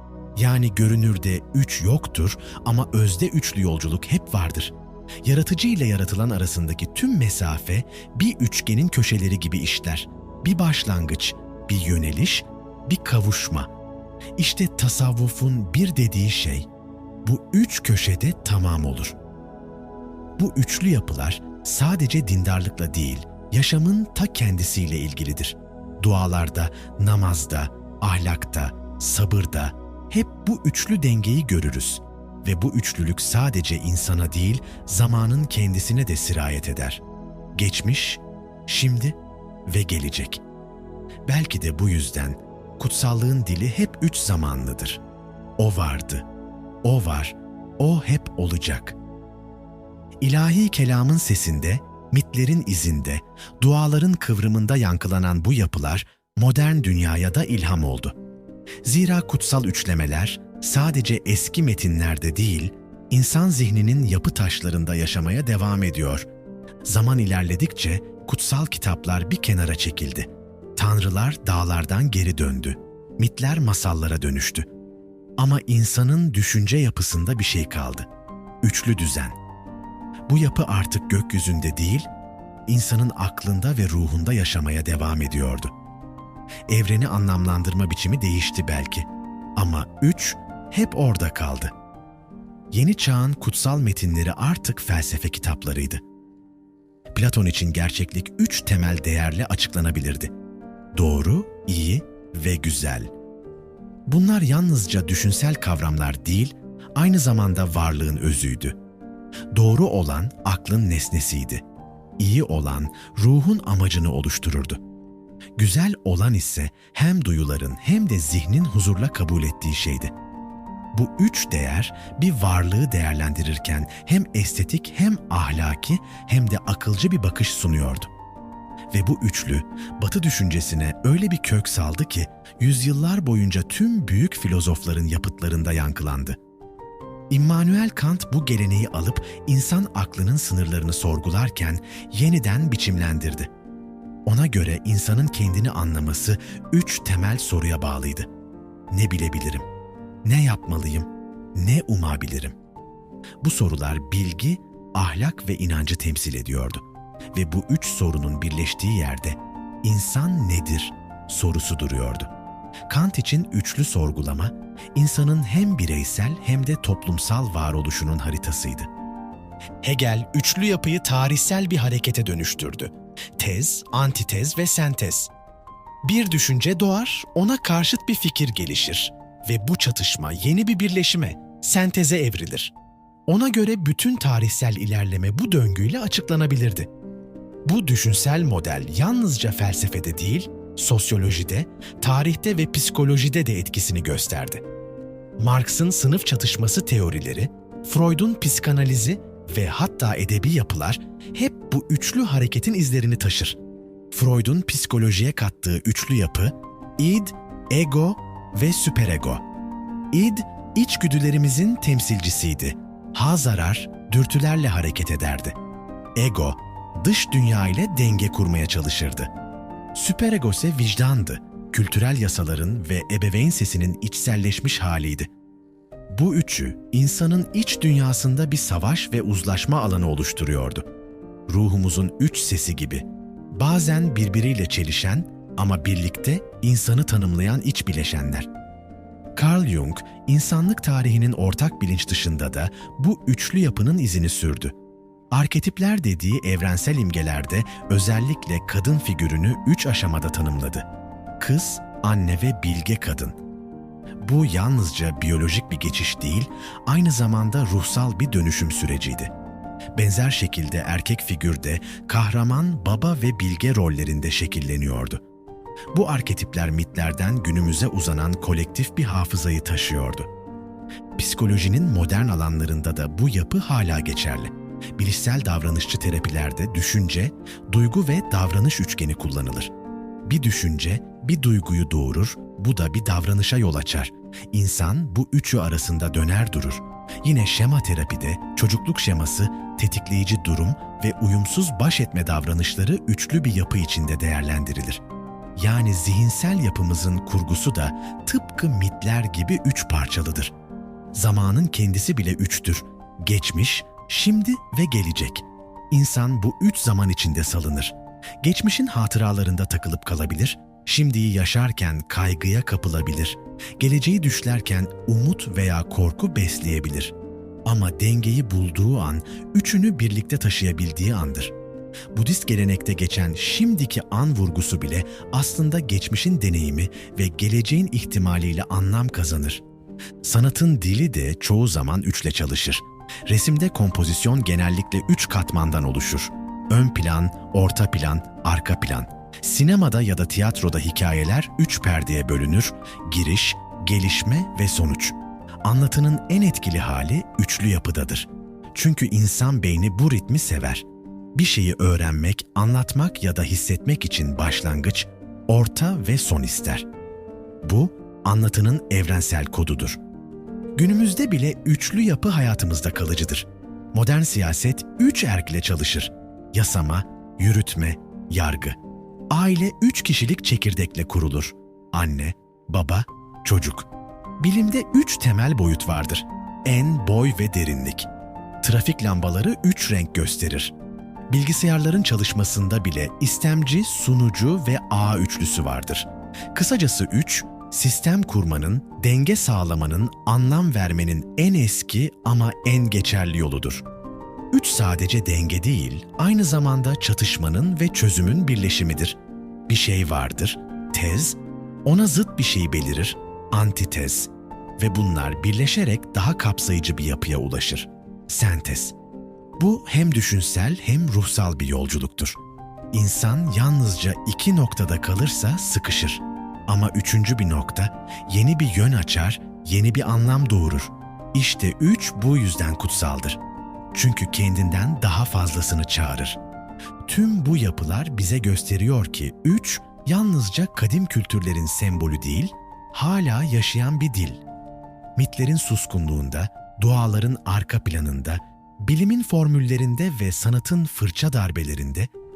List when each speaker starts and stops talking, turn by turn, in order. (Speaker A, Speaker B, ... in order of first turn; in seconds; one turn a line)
Speaker A: 0.4-13.7
Speaker A: 14.4-16.7
Speaker A: 17.2-19.2
Speaker A: 20.4-37.0
Speaker A: 37.5-40.4
Speaker A: 41.3-45.0
Speaker A: 45.6-46.2
Speaker A: 46.8-49.0
Speaker A: 50.2-58.2
Speaker A: 58.9-66.2
Speaker A: 66.8-74.7
Speaker A: 75.4-78.1
Speaker A: 78.6-79.4
Speaker A: 80.3-82.1
Speaker A: 82.7-85.7
Speaker A: 86.7-91.7
Speaker A: 92.7-96.0
Speaker A: 97.1-100.3
Speaker A: 100.9-103.1
Speaker A: 104.1-108.8
Speaker A: 109.5-111.6
Speaker A: 112.2-114.8
Speaker A: 115.6-120.1
Speaker A: 120.9-128.1
Speaker A: 128.9-136.4
Speaker A: 137.3-143.5
Speaker A: 144.2-148.3
Speaker A: 148.9-149.7
Speaker A: 150.2-152.6
Speaker A: 153.4-162.3
Speaker A: 162.9-168.9
Speaker A: 169.8-175.3
Speaker A: 176.0-182.7
Speaker A: 183.3-186.9
Speaker A: 187.7-194.6
Speaker A: 195.4-203.6
Speaker A: 204.1-209.4
Speaker A: 210.1-215.6
Speaker A: 216.2-219.3
Speaker A: 219.9-225.3
Speaker A: 226.1-230.9
Speaker A: 231.5-238.5
Speaker A: 239.4-244.8
Speaker A: 245.3-250.9
Speaker A: 251.4-253.4
Speaker A: 254.2-259.3
Speaker A: 259.9-265.2
Speaker A: 265.9-270.3
Speaker A: 271.2-279.7
Speaker A: 280.2-295.0
Speaker A: 295.6-300.5
Speaker A: 301.1-321.5
Speaker A: 322.1-329.6
Speaker A: 330.2-356.9
Speaker A: 357.6-360.0
Speaker A: 360.8-368.8
Speaker A: 369.3-373.9
Speaker A: 374.4-378.1
Speaker A: 378.6-380.7
Speaker A: 381.3-393.8
Speaker A: 394.5-399.2
Speaker A: 399.7-408.9
Speaker A: 409.6-412.4
Speaker A: 412.9-423.4
Speaker A: 423.9-426.4
Speaker A: 427.0-434.4
Speaker A: 435.2-442.1